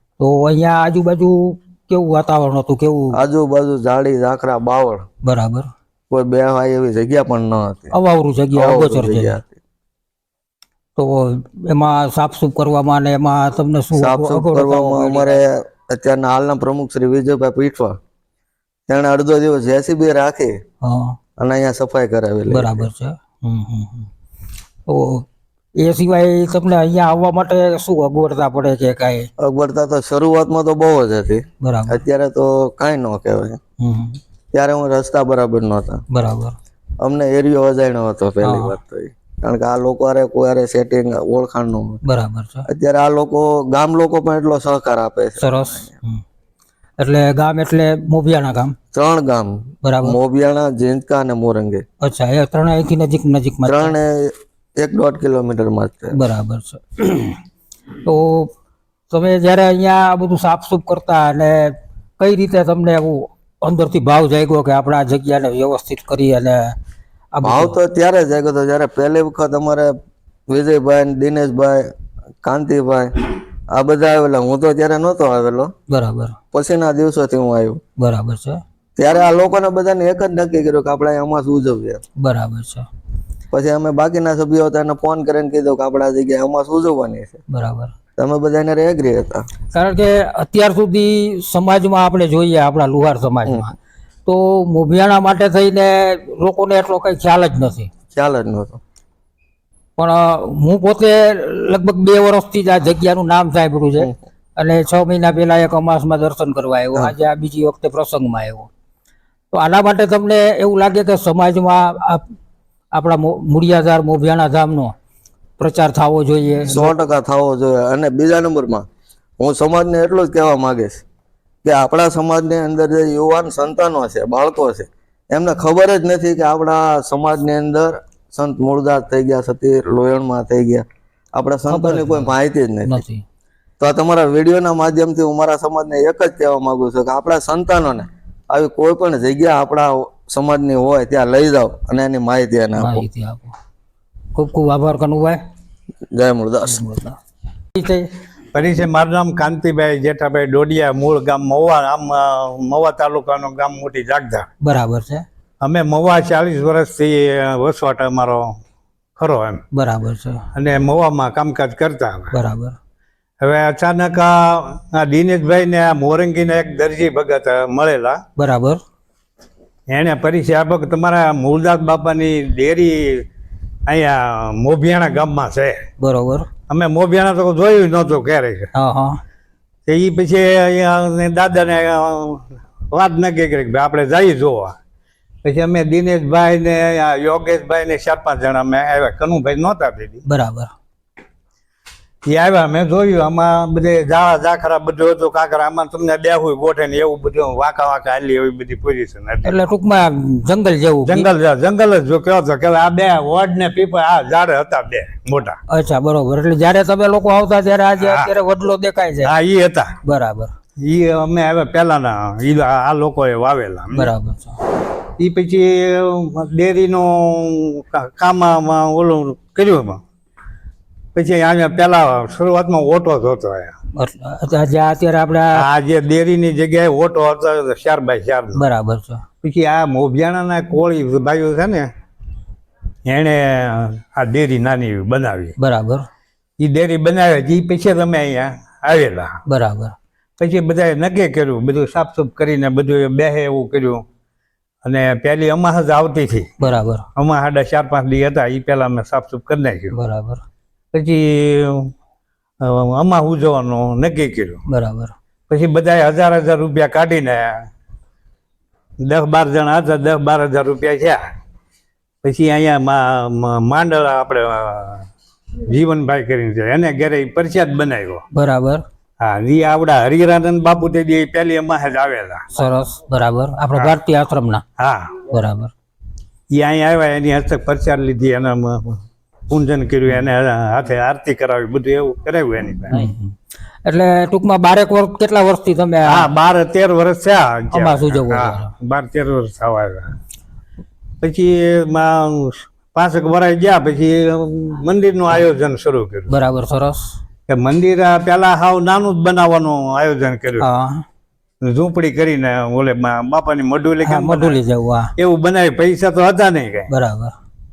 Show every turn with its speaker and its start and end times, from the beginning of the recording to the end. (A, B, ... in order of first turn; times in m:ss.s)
0:00.2-0:03.2 A
0:03.1-0:05.0 B
0:05.2-0:05.7 A
0:06.1-0:07.9 B
0:07.9-0:09.4 A
0:08.6-0:09.6 B
0:11.0-0:15.4 A
0:14.0-0:18.0 B
0:18.9-0:20.6 B
0:20.8-0:21.2 A
0:21.4-0:22.9 B
0:22.5-0:24.1 A
0:24.9-0:25.3 A
0:25.8-0:29.3 A
0:29.4-0:33.6 B
0:31.6-0:32.0 A
0:33.8-0:34.2 A
0:34.5-0:36.0 B
0:36.1-0:36.6 A
0:37.0-0:42.0 B
0:38.4-0:38.8 A
0:42.0-0:42.7 A
0:42.7-0:45.9 B
0:45.4-0:46.2 A
0:47.0-0:48.8 A
0:48.9-0:51.8 B
0:49.8-0:50.2 A
0:52.0-0:53.9 A
0:53.6-0:56.2 B
0:56.1-0:57.4 A
0:58.0-0:58.5 A
0:59.1-1:06.8 A
1:07.3-1:07.8 A
1:07.4-1:09.9 B
1:10.5-1:15.7 B
1:15.9-1:16.4 A
1:16.5-1:17.8 B
1:18.0-1:18.6 A
1:19.0-1:22.0 B
1:22.2-1:22.9 A
1:23.5-1:27.4 B
1:27.5-1:27.9 A
1:28.2-1:29.5 B
1:29.7-1:33.7 A
1:34.3-1:37.9 A
1:38.1-1:38.8 B
1:40.0-1:48.7 A
1:49.5-1:52.3 A
1:52.9-1:54.9 A
1:55.6-1:56.9 A
1:56.7-1:58.9 B
1:59.4-2:01.0 B
2:01.6-2:13.0 B
2:11.7-2:12.3 A
2:12.8-2:13.2 A
2:13.8-2:23.0 B
2:22.8-2:23.5 A
2:24.4-2:25.4 A
2:26.1-2:26.8 B
2:26.7-2:27.2 A
2:27.8-2:28.1 A
2:28.5-2:34.5 C
2:34.6-2:35.2 A
2:35.6-2:38.6 C
2:39.2-2:39.6 C
2:39.7-2:40.5 A
2:40.6-2:42.4 C
2:42.3-2:42.8 A
2:43.4-2:48.2 C
2:48.4-2:48.8 A
2:49.9-2:53.3 C
2:53.9-2:55.9 C
2:56.0-2:56.5 A
2:56.7-2:58.7 C
2:58.7-2:59.2 A
2:59.9-3:04.8 C
3:05.4-3:10.2 C
3:10.3-3:10.7 A
3:12.3-3:19.6 C
3:19.4-3:21.3 A
3:21.1-3:25.6 C
3:25.7-3:29.3 A
3:28.0-3:28.3 C
3:29.2-3:29.9 C
3:30.0-3:30.5 A
3:30.8-3:34.1 C
3:33.9-3:34.6 A
3:35.2-3:40.0 C
3:41.2-3:43.8 C
3:43.9-3:45.6 A
3:45.6-3:48.6 C
3:48.6-3:49.2 A
3:49.4-3:51.9 C
3:53.1-3:55.6 C
3:55.6-3:56.1 A
3:56.6-3:59.4 C
3:59.5-4:00.0 A
4:00.4-4:04.0 C
4:04.8-4:06.6 C
4:06.6-4:07.0 A
4:07.2-4:10.0 C
4:09.9-4:10.4 A
4:10.9-4:11.9 C
4:12.6-4:14.6 C
4:14.7-4:15.1 A
4:15.5-4:17.6 C
4:19.0-4:21.2 C
4:22.2-4:25.1 C
4:25.7-4:28.2 C
4:28.3-4:28.8 A
4:29.2-4:32.5 C
4:32.5-4:34.6 A
4:34.8-4:35.2 C
4:35.3-4:35.7 A
4:36.5-4:43.1 C
4:42.9-4:46.3 A
4:46.1-4:50.1 C
4:47.7-4:48.7 A
4:51.2-4:56.3 C
4:56.3-4:57.2 A
4:57.5-5:00.7 C
5:00.6-5:01.0 A
5:01.6-5:04.6 C
5:04.0-5:05.1 A
5:05.2-5:06.9 C
5:06.9-5:07.3 A